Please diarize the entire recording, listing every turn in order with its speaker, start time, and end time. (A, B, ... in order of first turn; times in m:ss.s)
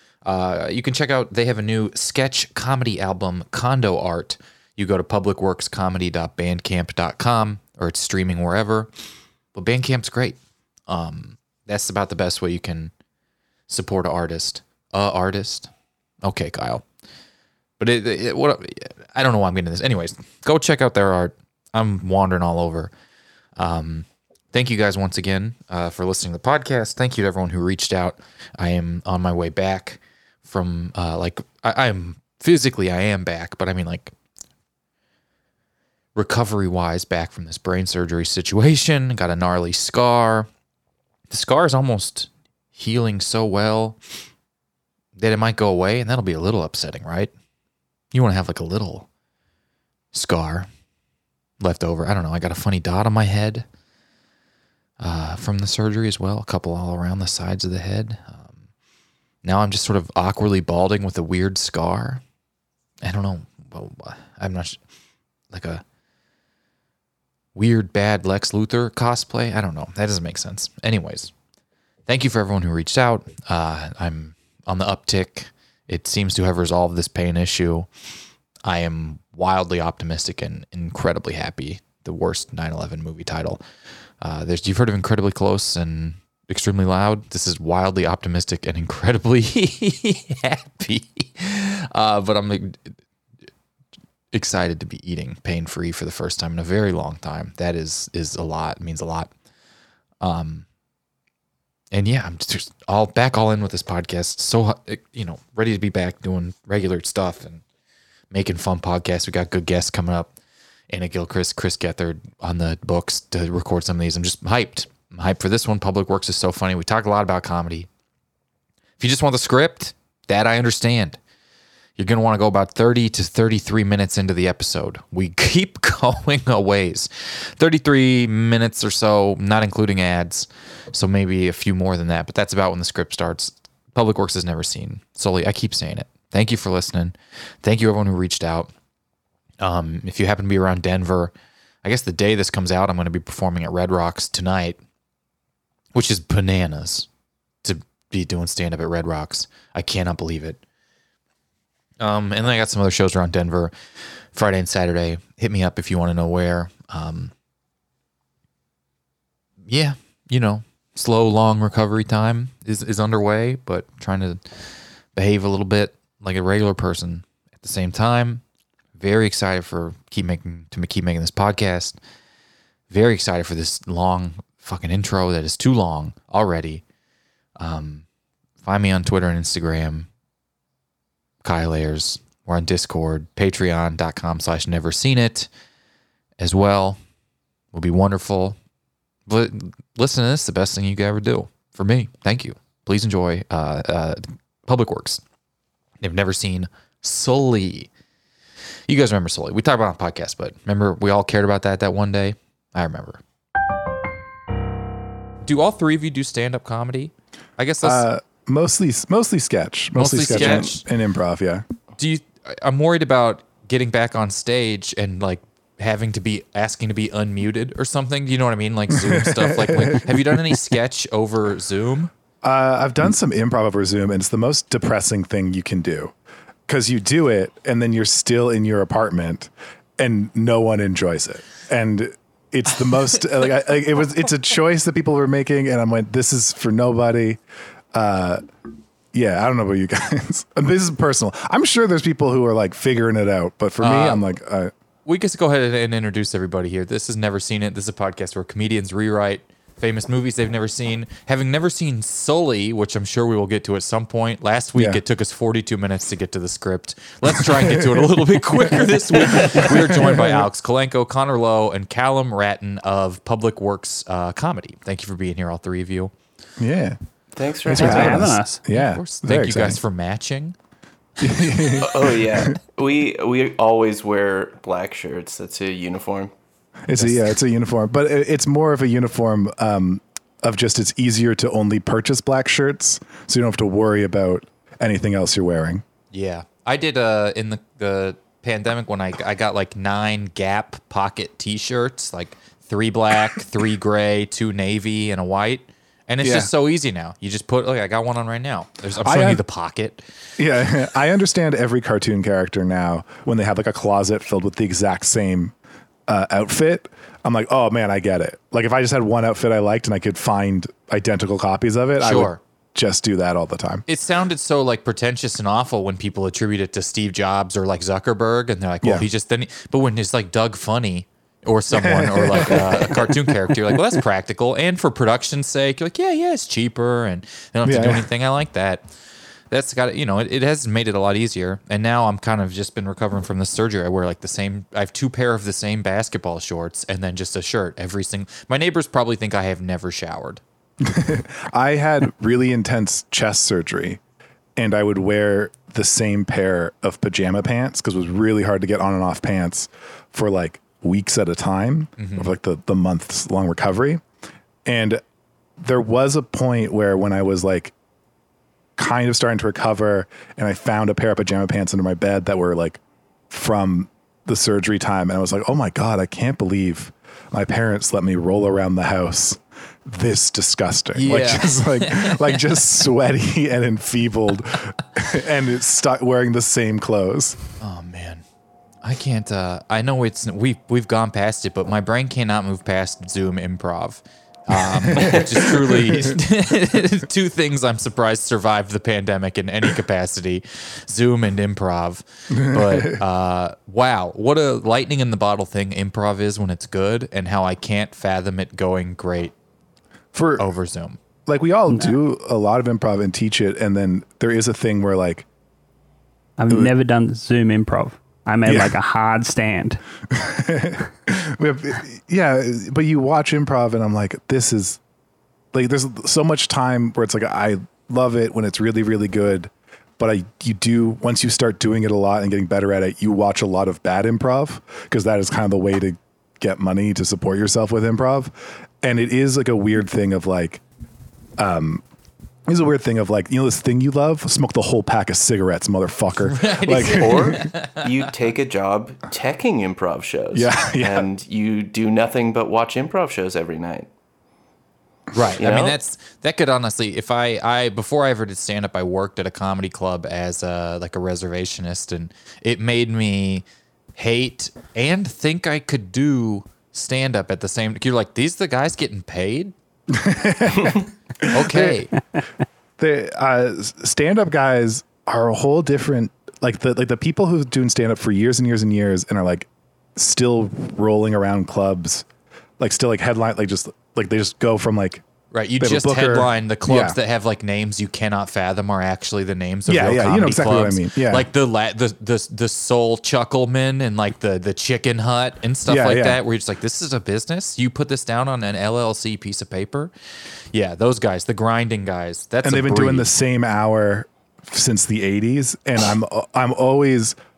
0:00.2-0:08.9 A
0:09.5-0:12.9 A
0:13.7-0:15.7 A
0:16.2-0:16.8 A
0:17.8-0:22.9 A
0:23.6-0:34.1 A
0:36.1-0:40.5 A
0:41.3-0:44.0 A
0:45.2-0:47.3 A
0:48.1-0:49.1 A
0:50.1-0:50.7 A
0:51.6-0:53.6 A
0:55.0-0:58.5 A
0:59.4-1:02.2 A
1:03.0-1:04.8 A
1:05.5-1:05.8 A
1:07.5-1:11.3 A
1:12.1-1:17.9 A
1:18.6-1:23.6 A
1:24.2-1:32.9 A
1:34.3-1:39.3 A
1:40.2-1:40.6 A
1:41.9-1:47.6 A
1:48.3-1:50.3 A
1:50.9-1:57.9 A
1:59.0-2:01.2 A
2:02.0-2:18.7 A
2:19.6-2:21.3 A
2:21.8-2:24.8 A
2:25.9-2:27.1 A
2:27.6-2:30.6 A
2:32.0-2:33.7 A
2:34.3-2:37.3 A
2:39.7-2:44.4 A
2:45.1-2:48.4 A
2:49.0-2:52.0 A
2:52.9-2:56.8 A
2:57.6-2:58.0 A
2:58.6-3:00.1 A
3:01.4-3:05.5 A
3:06.4-3:07.0 A
3:07.7-3:08.6 A
3:09.3-3:15.2 A
3:16.0-3:17.9 A
3:18.9-3:23.2 A
3:25.4-3:28.1 A
3:27.8-3:31.6 B
3:29.9-3:30.8 A
3:32.0-3:42.1 A
3:38.9-3:40.2 B
3:42.4-3:46.1 B
3:46.7-3:57.4 B
3:57.9-3:58.4 B
3:59.1-4:04.7 B
4:03.8-4:04.2 A
4:05.0-4:26.1 A
4:14.7-4:15.0 B
4:17.3-4:18.0 B
4:19.3-4:20.4 B
4:26.6-4:27.0 B
4:27.3-4:28.3 C
4:27.6-4:29.8 B
4:27.7-4:28.6 D
4:28.0-4:30.5 A
4:31.2-4:32.5 B
4:31.8-4:36.3 C
4:36.9-4:45.8 B
4:36.9-4:37.3 A
4:46.1-5:00.0 A
4:56.2-4:56.5 B
4:59.0-4:59.4 B
5:00.4-5:05.5 B
5:06.1-5:13.8 B
5:12.0-5:12.4 A
5:13.9-5:28.8 A
5:21.7-5:23.8 B
5:27.6-5:28.0 B
5:29.5-5:40.4 A
5:40.8-5:44.0 B
5:44.6-5:54.0 B
5:52.0-5:52.3 A
5:54.6-5:55.0 B
5:55.6-5:57.7 B
5:58.8-6:17.4 B
6:10.9-6:12.8 A
6:17.6-6:18.2 A
6:18.8-6:39.3 A
6:24.7-6:26.1 B
6:32.3-6:33.0 B
6:40.1-6:40.4 B
6:40.4-6:41.0 A
6:41.2-6:45.2 B
6:41.7-6:41.9 D
6:46.4-6:49.8 D
6:48.4-6:48.7 B
6:50.1-6:54.8 B
6:55.5-7:10.6 B
7:11.4-7:11.8 B
7:12.5-7:17.5 B
7:16.2-7:17.9 A
7:16.8-7:23.9 C
7:20.3-7:21.0 B
7:25.1-7:33.4 A
7:25.4-7:25.8 C
7:34.0-7:39.5 A
7:39.9-7:41.9 B
7:41.3-7:41.9 A
7:42.8-7:52.0 B
7:52.6-7:55.0 B
7:55.3-8:09.9 A
7:55.6-7:57.0 B
7:59.7-8:01.3 B
8:05.7-8:06.2 B
8:10.5-8:13.1 A
8:12.4-8:17.2 B